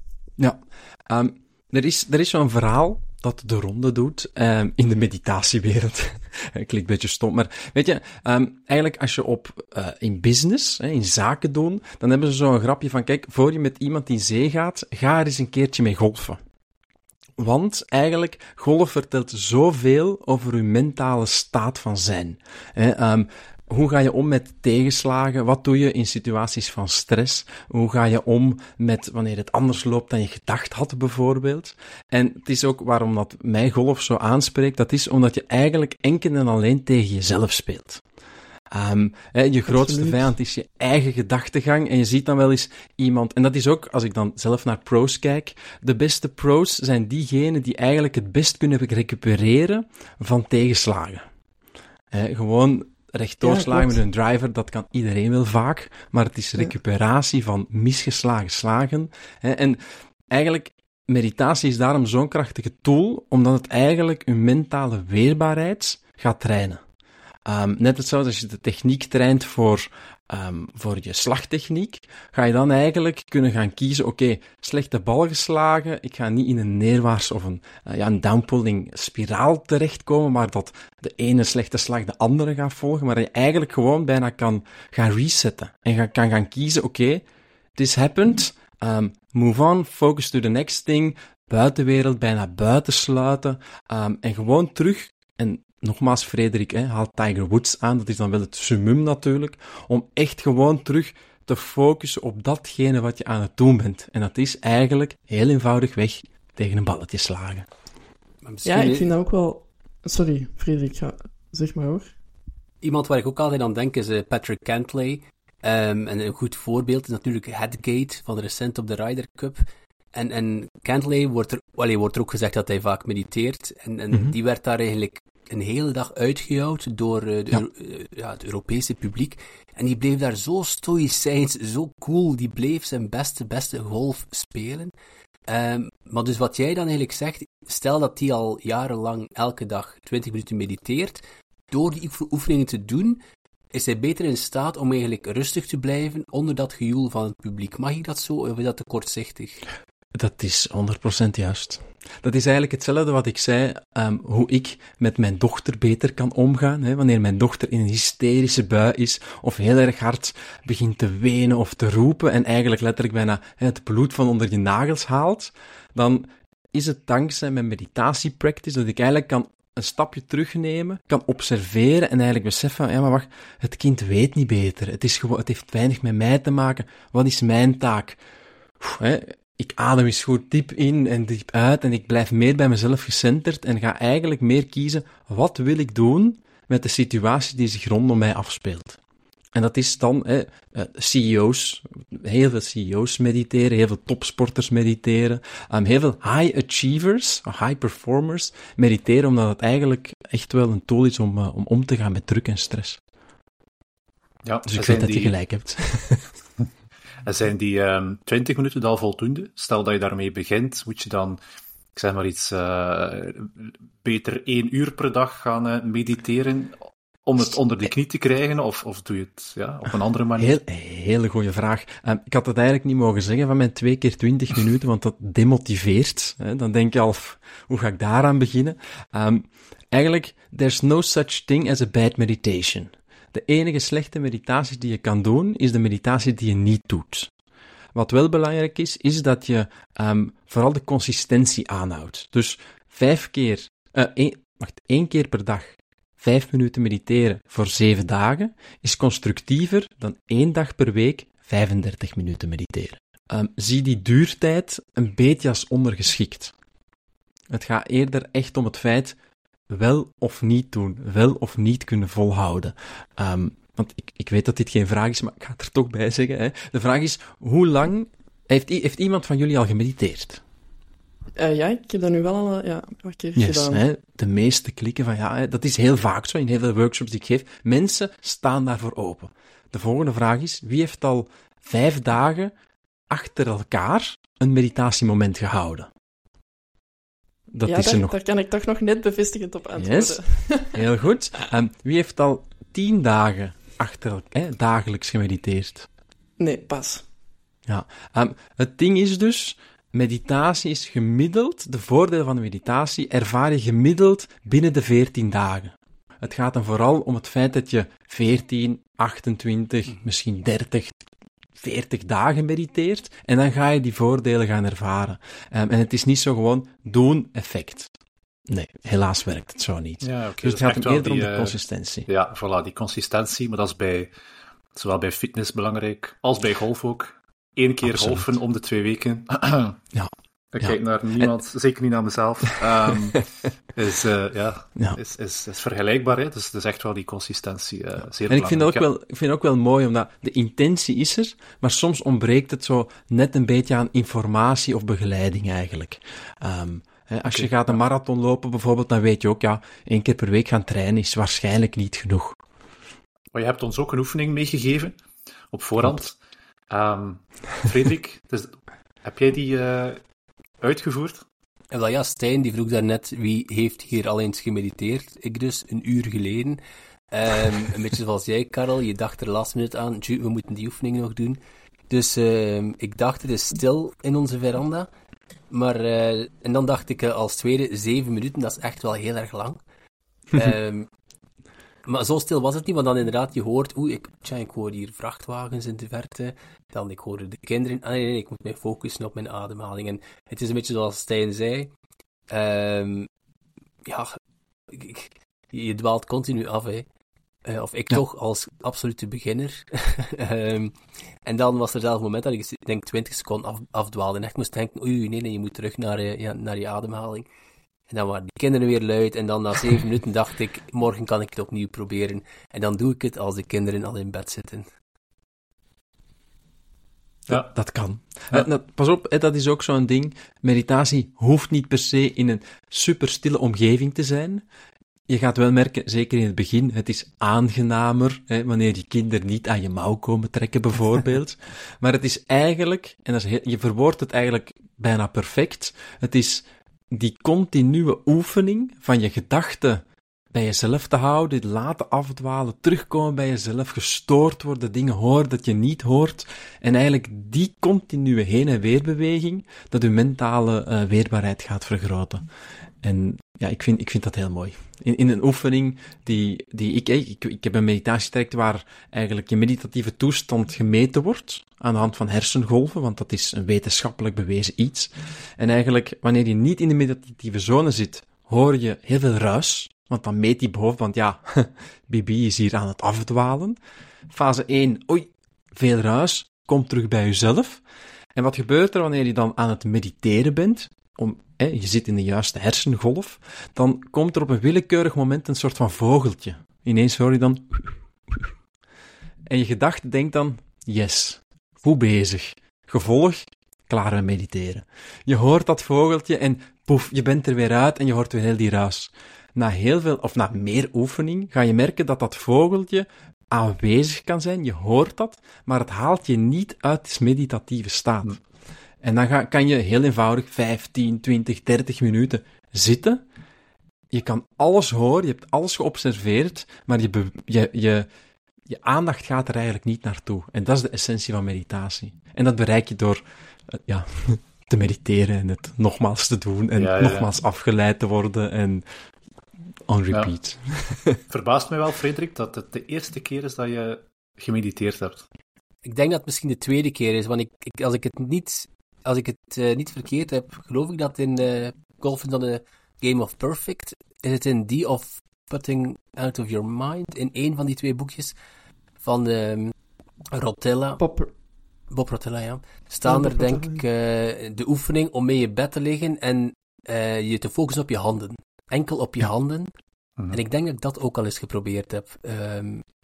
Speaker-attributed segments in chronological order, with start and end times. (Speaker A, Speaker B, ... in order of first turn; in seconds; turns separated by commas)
Speaker A: 0.4-16.4, Speaker A: 17.4-38.0, Speaker A: 38.7-51.2, Speaker B: 39.7-40.3, Speaker A: 52.1-66.8, Speaker B: 53.4-54.0, Speaker A: 67.5-87.2, Speaker A: 87.8-107.7, Speaker C: 108.4-109.1, Speaker B: 108.7-112.1, Speaker C: 112.8-134.9, Speaker C: 135.5-143.2, Speaker C: 143.7-149.6, Speaker A: 150.2-178.2, Speaker A: 178.8-189.0, Speaker A: 189.5-203.0, Speaker D: 204.4-205.3, Speaker A: 204.7-206.2, Speaker D: 207.2-211.4, Speaker D: 211.9-216.7, Speaker D: 217.2-220.6, Speaker A: 220.4-237.3, Speaker A: 237.9-256.5, Speaker A: 257.5-259.1, Speaker A: 259.7-270.4, Speaker B: 271.4-273.8, Speaker A: 273.4-282.5, Speaker A: 283.1-285.9, Speaker A: 287.5-288.1, Speaker B: 287.6-290.8, Speaker A: 289.8-290.2, Speaker A: 290.7-295.9, Speaker B: 296.4-297.1, Speaker A: 297.7-311.0, Speaker A: 311.6-317.9, Speaker A: 318.5-322.1, Speaker D: 320.0-321.6, Speaker D: 322.1-324.1, Speaker D: 324.7-329.8, Speaker A: 327.8-328.2, Speaker A: 329.9-331.3, Speaker D: 330.5-333.2, Speaker A: 332.6-333.2, Speaker D: 333.7-338.8, Speaker A: 338.3-352.4, Speaker D: 353.3-355.0, Speaker D: 355.5-356.1, Speaker D: 356.7-360.0, Speaker D: 360.6-361.2, Speaker C: 361.7-366.6, Speaker C: 367.1-374.9, Speaker C: 375.5-379.6, Speaker C: 380.3-380.9, Speaker C: 381.8-391.7, Speaker C: 392.3-393.1, Speaker C: 393.8-394.1, Speaker C: 394.7-396.9, Speaker C: 397.4-407.3, Speaker C: 407.9-414.6, Speaker A: 417.3-424.4, Speaker A: 425.1-452.2, Speaker A: 452.8-473.6, Speaker A: 474.1-477.6, Speaker A: 478.1-488.3, Speaker A: 489.3-508.2, Speaker A: 508.8-513.0, Speaker A: 513.9-517.9, Speaker A: 518.5-523.0, Speaker A: 523.5-528.6, Speaker D: 526.5-527.1, Speaker A: 529.7-531.0, Speaker D: 531.1-535.0, Speaker C: 535.6-548.1, Speaker C: 548.8-549.5, Speaker C: 550.1-550.8, Speaker B: 550.8-551.1, Speaker C: 551.7-559.5, Speaker B: 552.9-553.6, Speaker C: 560.1-562.6